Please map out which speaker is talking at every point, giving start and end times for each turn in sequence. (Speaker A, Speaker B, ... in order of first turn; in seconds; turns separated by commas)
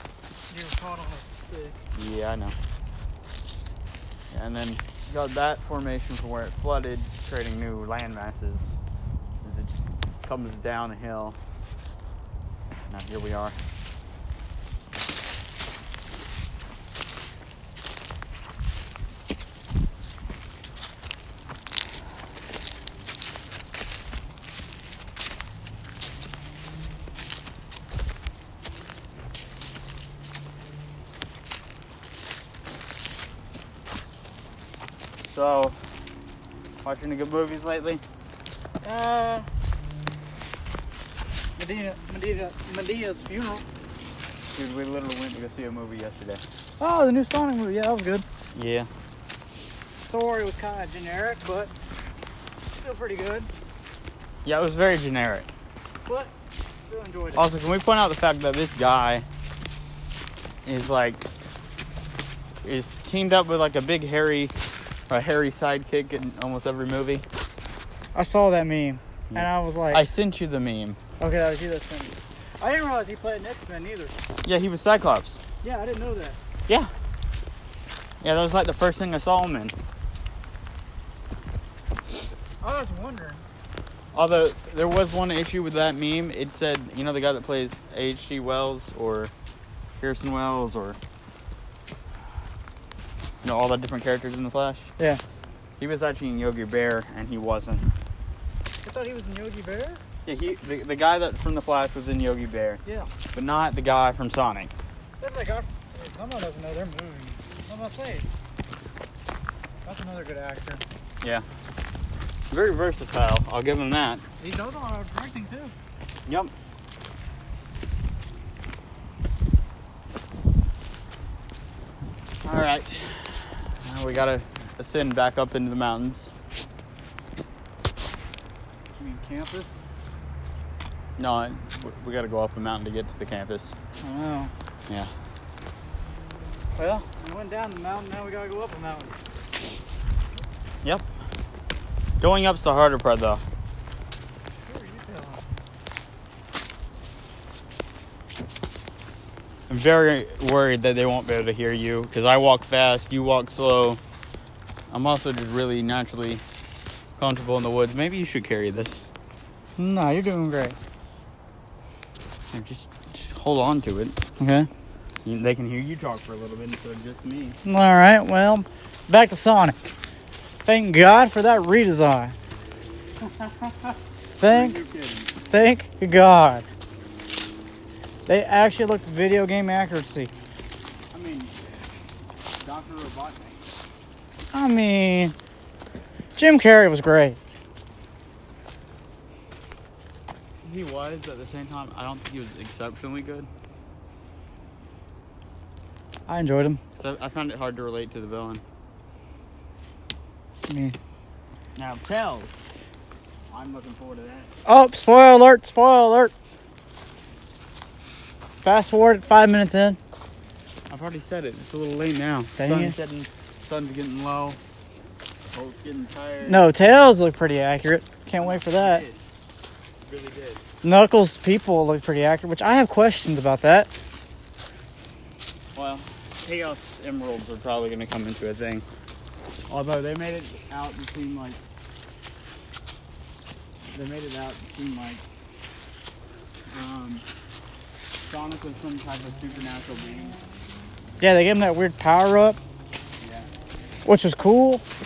Speaker A: 0.5-1.8, Speaker B: 1.9-2.5, Speaker B: 4.3-8.7, Speaker B: 9.4-11.4, Speaker B: 12.9-13.6, Speaker B: 35.2-35.8, Speaker B: 36.8-38.0, Speaker A: 38.8-39.5, Speaker A: 41.6-43.6, Speaker B: 44.5-46.4, Speaker A: 46.8-48.2, Speaker B: 48.5-48.9, Speaker A: 50.0-51.7, Speaker A: 52.7-53.5, Speaker B: 54.4-55.5, Speaker A: 56.0-56.3, Speaker A: 56.9-57.5, Speaker B: 57.4-59.2, Speaker B: 60.6-61.2, Speaker B: 62.6-64.5, Speaker B: 65.1-67.2, Speaker A: 68.1-70.0, Speaker B: 69.3-71.0, Speaker A: 71.2-74.2, Speaker B: 74.4-75.4, Speaker A: 75.6-76.4, Speaker B: 78.2-79.7, Speaker A: 82.6-83.4, Speaker B: 84.1-89.3, Speaker B: 90.0-91.0, Speaker B: 93.4-94.9, Speaker B: 95.8-97.9, Speaker A: 98.8-100.0, Speaker B: 100.2-102.8, Speaker A: 102.8-103.1, Speaker B: 103.3-104.7, Speaker A: 105.2-108.3, Speaker A: 109.8-110.8, Speaker B: 112.5-114.2, Speaker A: 114.4-115.7, Speaker B: 116.2-116.5, Speaker B: 122.4-126.3, Speaker A: 129.0-129.8, Speaker B: 131.2-133.7, Speaker A: 134.0-134.5, Speaker A: 136.8-139.2, Speaker B: 142.2-143.4, Speaker A: 144.6-145.5, Speaker B: 149.7-154.0, Speaker B: 154.9-156.4, Speaker B: 157.2-159.0, Speaker A: 159.8-160.8, Speaker B: 162.5-164.2, Speaker A: 164.4-164.7, Speaker B: 165.2-167.6, Speaker A: 167.6-169.9, Speaker A: 170.6-172.3, Speaker B: 173.2-175.3, Speaker A: 174.2-174.8, Speaker A: 175.5-176.7, Speaker A: 178.3-180.3, Speaker B: 181.1-181.5, Speaker B: 182.6-183.6, Speaker A: 184.5-185.3, Speaker A: 186.3-187.4, Speaker B: 190.6-193.5, Speaker A: 196.3-196.8, Speaker B: 197.0-198.6, Speaker A: 200.7-200.9, Speaker B: 201.8-202.5, Speaker B: 203.5-204.5, Speaker A: 204.7-206.3, Speaker A: 208.6-210.0, Speaker B: 210.9-214.6, Speaker A: 212.6-212.9, Speaker B: 215.5-216.7, Speaker A: 216.4-219.0, Speaker B: 218.3-219.2, Speaker B: 220.0-220.6, Speaker A: 220.8-223.9, Speaker B: 225.7-228.8, Speaker B: 229.7-231.6, Speaker B: 233.9-235.2, Speaker B: 236.7-237.2, Speaker B: 238.2-240.4, Speaker A: 241.2-242.6, Speaker B: 243.2-243.5, Speaker A: 244.0-244.8